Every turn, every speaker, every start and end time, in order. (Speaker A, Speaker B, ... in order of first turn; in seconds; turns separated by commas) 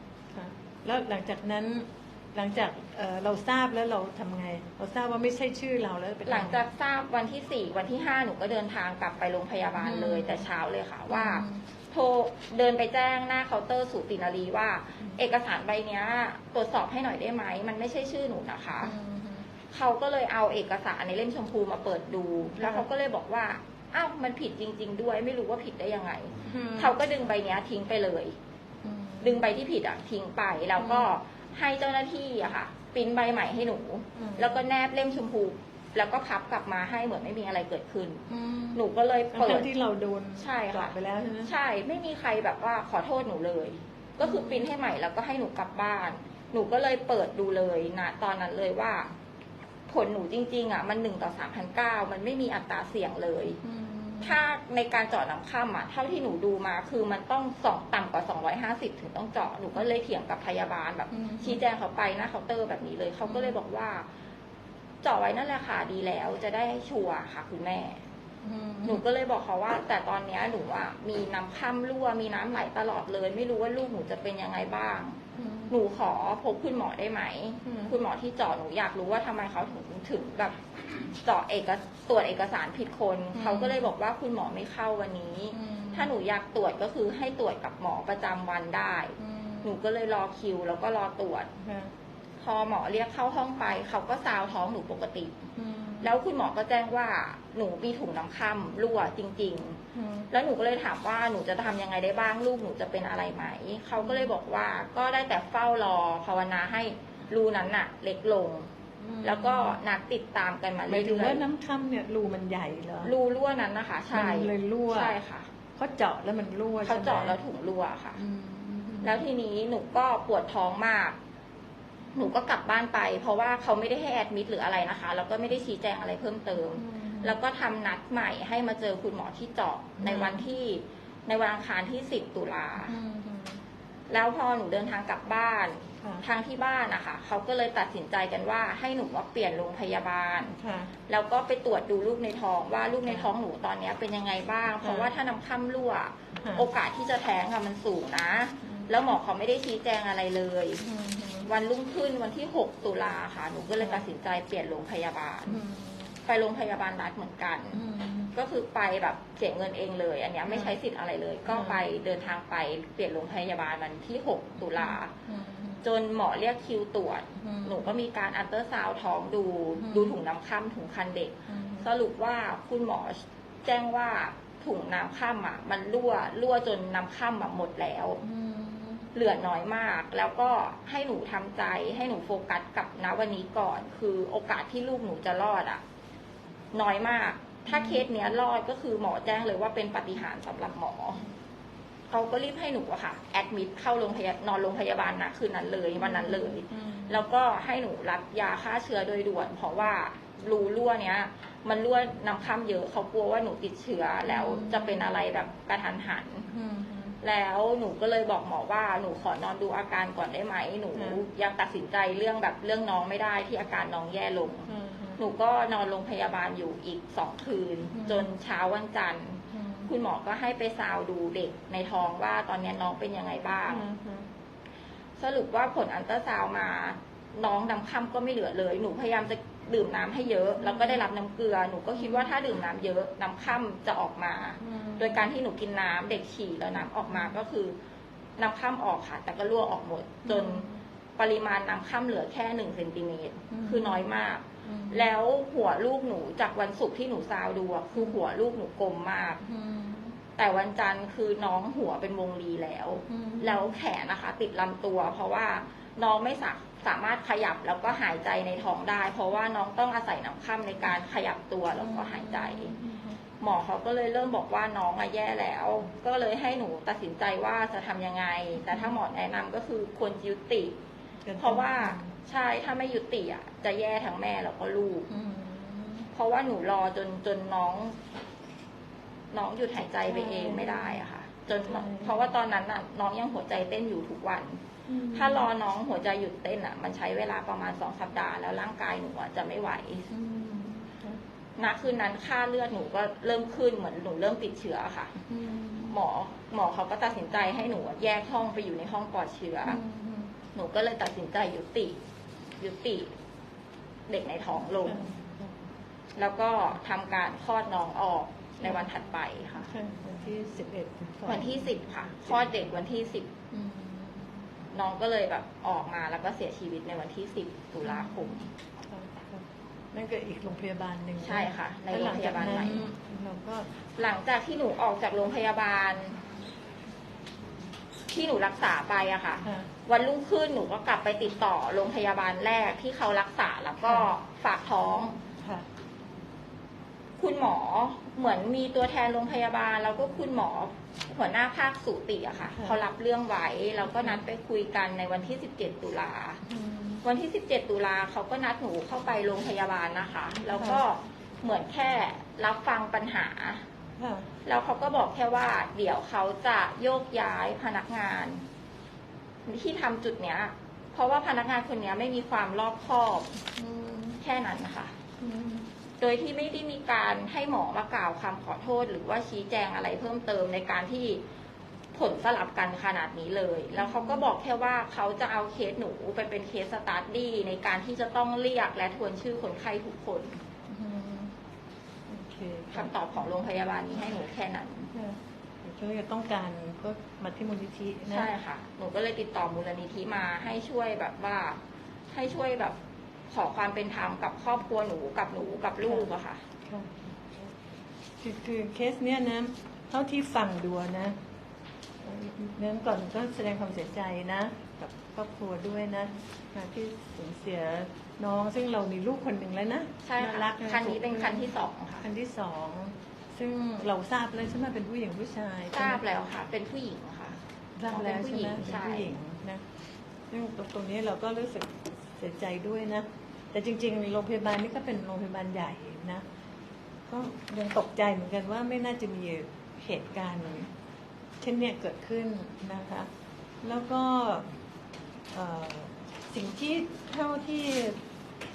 Speaker A: 0.3-6.6, Speaker B: 6.3-18.9, Speaker A: 9.8-10.5, Speaker A: 11.1-11.7, Speaker A: 18.8-19.5, Speaker B: 19.7-28.3, Speaker A: 22.6-22.9, Speaker A: 26.4-27.0, Speaker A: 28.8-29.4, Speaker B: 29.2-39.7, Speaker A: 30.8-31.1, Speaker A: 34.2-34.6, Speaker A: 38.3-38.8, Speaker A: 39.3-41.5, Speaker B: 40.4-49.1, Speaker A: 44.2-44.7, Speaker B: 49.9-53.6, Speaker A: 53.6-54.4, Speaker B: 54.2-64.1, Speaker A: 61.1-61.6, Speaker A: 63.2-63.6, Speaker B: 65.0-68.0, Speaker A: 68.4-69.0, Speaker B: 68.9-80.6, Speaker A: 75.3-75.7, Speaker A: 77.7-78.0, Speaker B: 81.2-91.5, Speaker A: 83.3-83.9, Speaker A: 85.5-86.1, Speaker A: 89.2-89.8, Speaker A: 91.6-91.9, Speaker B: 92.4-95.4, Speaker A: 95.6-96.2, Speaker B: 96.0-108.7, Speaker A: 99.9-100.3, Speaker A: 104.0-104.3, Speaker A: 109.0-109.8, Speaker B: 109.2-111.5, Speaker A: 110.9-113.1, Speaker B: 113.0-115.5, Speaker A: 114.1-115.2, Speaker A: 115.8-117.4, Speaker B: 116.8-118.2, Speaker A: 118.2-119.2, Speaker B: 119.0-121.2, Speaker B: 122.2-133.0, Speaker A: 126.7-127.4, Speaker A: 130.0-130.4, Speaker A: 132.9-133.6, Speaker B: 134.1-140.6, Speaker A: 140.4-140.9, Speaker B: 141.1-150.8, Speaker A: 144.8-145.1, Speaker A: 146.4-146.7, Speaker A: 148.6-148.9, Speaker A: 150.8-151.5, Speaker B: 151.4-155.6, Speaker A: 153.8-154.1, Speaker A: 155.5-156.2, Speaker B: 156.3-165.1, Speaker A: 157.7-158.3, Speaker A: 160.5-160.8, Speaker A: 161.5-161.8, Speaker A: 164.8-165.8, Speaker B: 165.8-178.2, Speaker A: 167.4-167.9, Speaker A: 169.8-170.1, Speaker A: 171.5-171.9, Speaker A: 178.2-179.1, Speaker B: 179.2-185.8, Speaker B: 186.7-191.2, Speaker A: 187.7-188.1, Speaker B: 192.1-206.5, Speaker A: 196.0-197.2, Speaker A: 204.3-205.1, Speaker A: 206.5-207.2, Speaker B: 207.2-223.8, Speaker A: 210.9-211.2, Speaker A: 214.7-215.2, Speaker A: 217.9-218.3, Speaker A: 219.5-219.9, Speaker A: 223.7-224.3, Speaker B: 225.2-237.8, Speaker A: 230.6-231.0, Speaker A: 232.0-232.3, Speaker A: 234.6-235.2, Speaker A: 237.1-237.3, Speaker B: 238.4-240.7, Speaker A: 240.3-240.8, Speaker B: 241.2-249.4, Speaker A: 243.5-244.1, Speaker A: 244.6-245.1, Speaker A: 249.4-250.2, Speaker B: 250.4-262.8, Speaker A: 253.1-253.8, Speaker A: 261.8-263.2, Speaker B: 263.4-270.7, Speaker A: 268.7-268.9, Speaker A: 271.3-272.1, Speaker B: 271.4-275.1, Speaker A: 275.1-276.1, Speaker B: 276.1-278.0, Speaker B: 279.3-284.6, Speaker A: 280.0-281.0, Speaker A: 281.7-282.2, Speaker A: 284.9-285.5, Speaker B: 285.1-290.1, Speaker A: 290.1-291.2, Speaker B: 291.6-295.1, Speaker A: 295.2-296.0, Speaker B: 295.9-299.8, Speaker A: 299.7-300.3, Speaker B: 300.6-302.0, Speaker B: 302.6-303.1, Speaker B: 304.1-305.1, Speaker A: 304.8-305.6, Speaker B: 306.2-309.7, Speaker A: 309.7-312.4, Speaker B: 311.3-313.3, Speaker A: 313.5-314.3, Speaker B: 314.7-318.5, Speaker A: 317.8-318.3, Speaker A: 318.9-323.7, Speaker B: 321.2-322.9, Speaker B: 324.0-326.2, Speaker B: 328.1-335.2, Speaker A: 329.4-329.7, Speaker A: 333.8-334.1, Speaker A: 335.4-335.6, Speaker B: 337.2-346.4, Speaker A: 342.5-342.8, Speaker A: 343.9-344.2, Speaker A: 346.5-347.0, Speaker B: 347.0-353.6, Speaker A: 350.5-350.8, Speaker A: 354.0-354.3, Speaker B: 354.4-358.4, Speaker B: 359.5-363.4, Speaker A: 363.6-364.2, Speaker B: 364.2-364.9, Speaker A: 365.2-365.7, Speaker B: 366.0-371.2, Speaker B: 371.9-380.4, Speaker A: 373.8-374.2, Speaker A: 380.7-381.3, Speaker A: 382.1-383.3, Speaker B: 382.7-384.9, Speaker A: 384.9-388.3, Speaker B: 388.1-391.6, Speaker B: 392.1-392.8, Speaker B: 393.3-396.4, Speaker A: 396.7-397.5, Speaker A: 398.2-401.2, Speaker A: 402.0-411.5, Speaker B: 410.0-412.1, Speaker A: 412.0-416.0, Speaker B: 415.7-419.1, Speaker A: 417.8-426.2, Speaker A: 427.1-430.7, Speaker A: 431.4-433.1, Speaker A: 433.6-434.5, Speaker A: 435.3-438.0